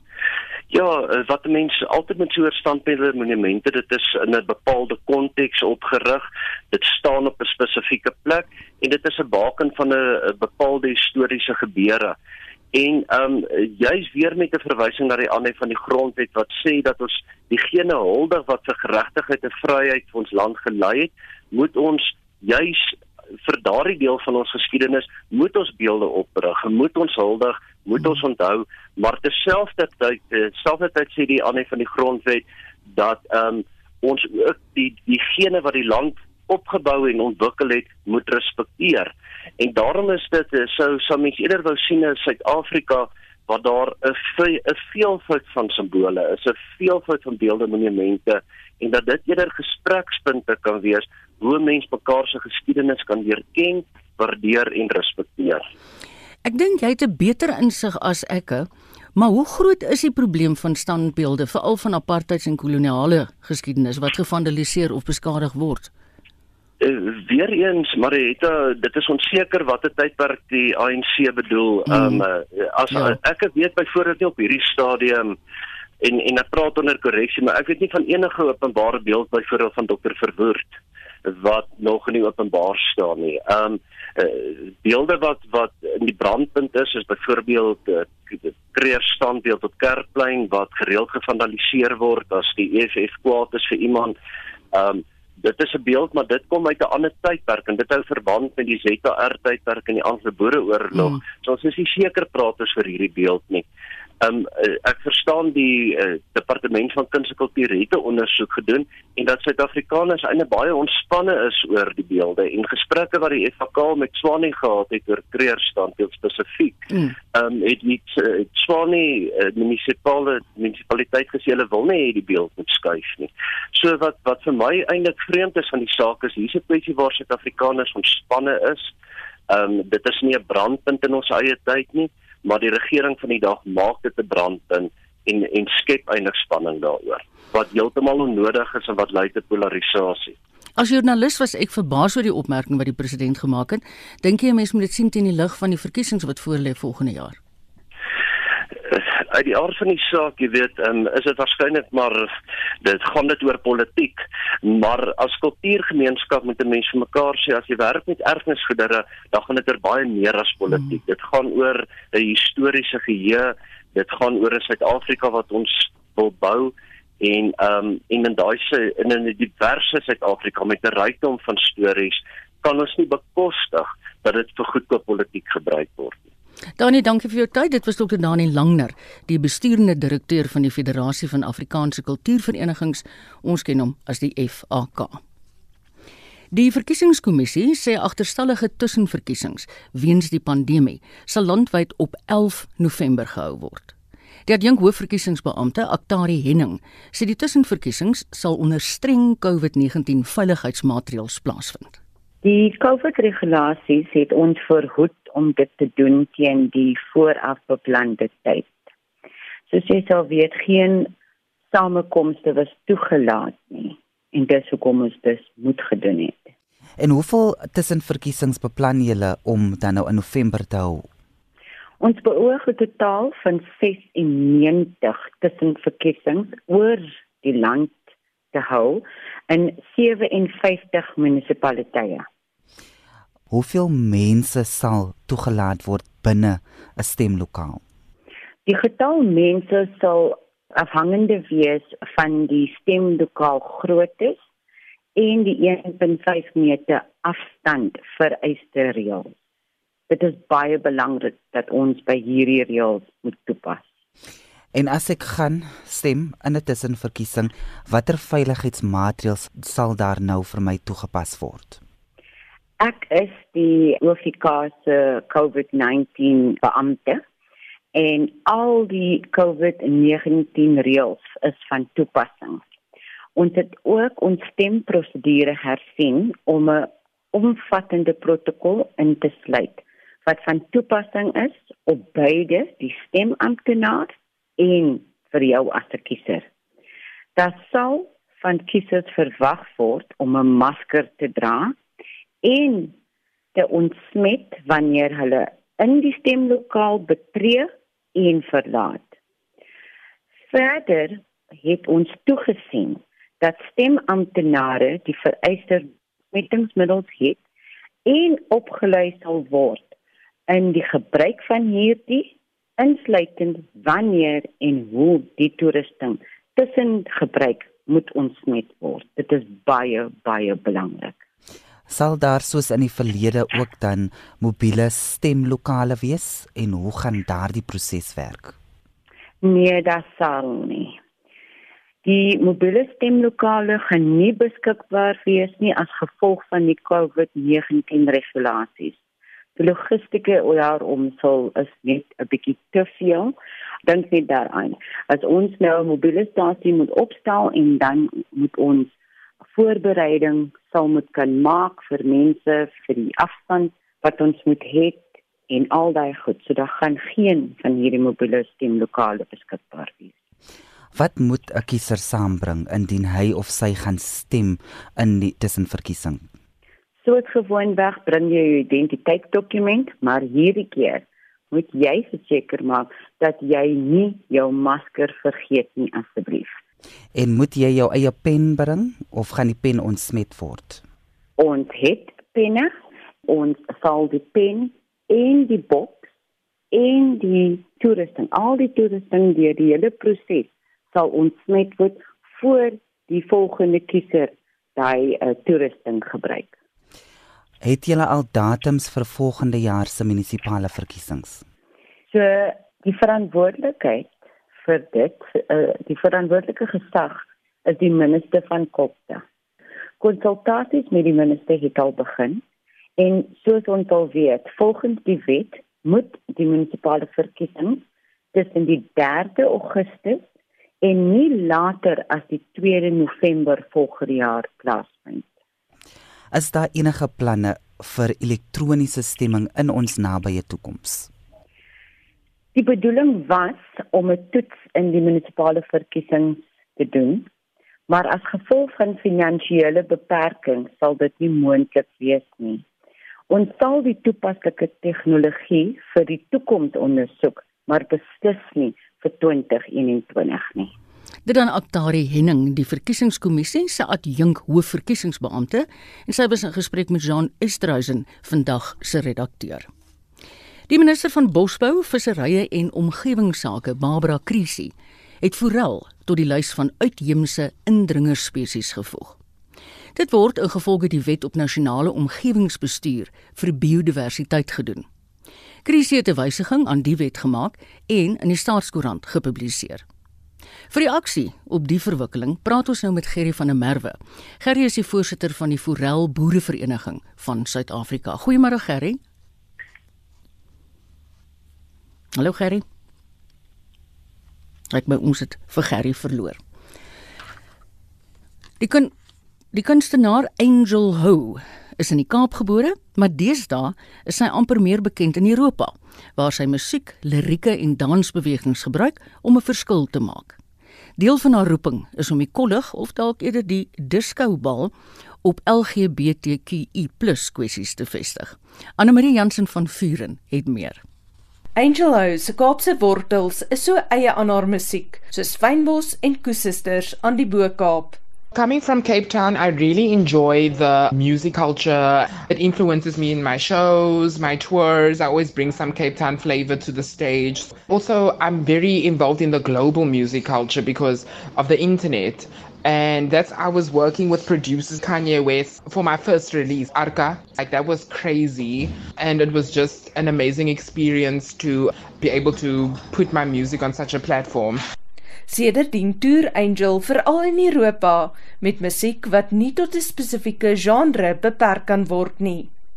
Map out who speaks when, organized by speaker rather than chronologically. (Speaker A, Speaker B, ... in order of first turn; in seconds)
Speaker A: 0.7-12.2, 12.7-55.7, 66.8-75.4, 76.0-94.1, 94.7-103.6, 104.2-128.9, 129.5-140.3, 148.8-176.2
Speaker B: 56.4-65.9, 71.9-72.2, 100.9-101.2, 140.8-147.4, 176.8-185.2, 186.5-193.9, 194.5-202.0, 451.2-459.7, 460.7-469.2, 469.9-474.9, 475.6-479.8, 480.7-489.0, 492.1-492.6, 494.7-496.4, 498.6-498.9, 499.5-510.4, 511.0-514.7, 515.2-520.8
Speaker C: 202.4-208.7, 209.7-211.1, 211.7-216.5, 222.0-228.0, 228.5-232.2, 238.7-244.4, 245.2-249.3, 250.1-253.8, 262.8-267.2, 267.9-272.6, 273.4-286.4, 287.4-291.7, 292.4-292.9, 293.5-299.1, 300.5-307.4, 308.1-309.9, 310.5-321.1, 329.4-331.0, 332.0-339.0, 339.6-343.3, 343.9-348.9, 349.5-360.1, 367.0-376.6, 381.4-382.7, 383.3-386.1, 386.7-396.5, 402.1-409.2, 410.0-412.4, 413.0-417.8, 418.3-420.2, 420.8-425.2, 432.5-437.3, 437.9-442.6, 443.3-450.7
Speaker D: 217.0-221.1, 233.5-237.8, 254.7-261.8, 321.9-328.6, 360.9-366.3, 377.1-380.8, 397.6-401.4, 426.3-431.1
Speaker E: 521.5-528.0, 555.3-562.5
Speaker F: 528.3-554.6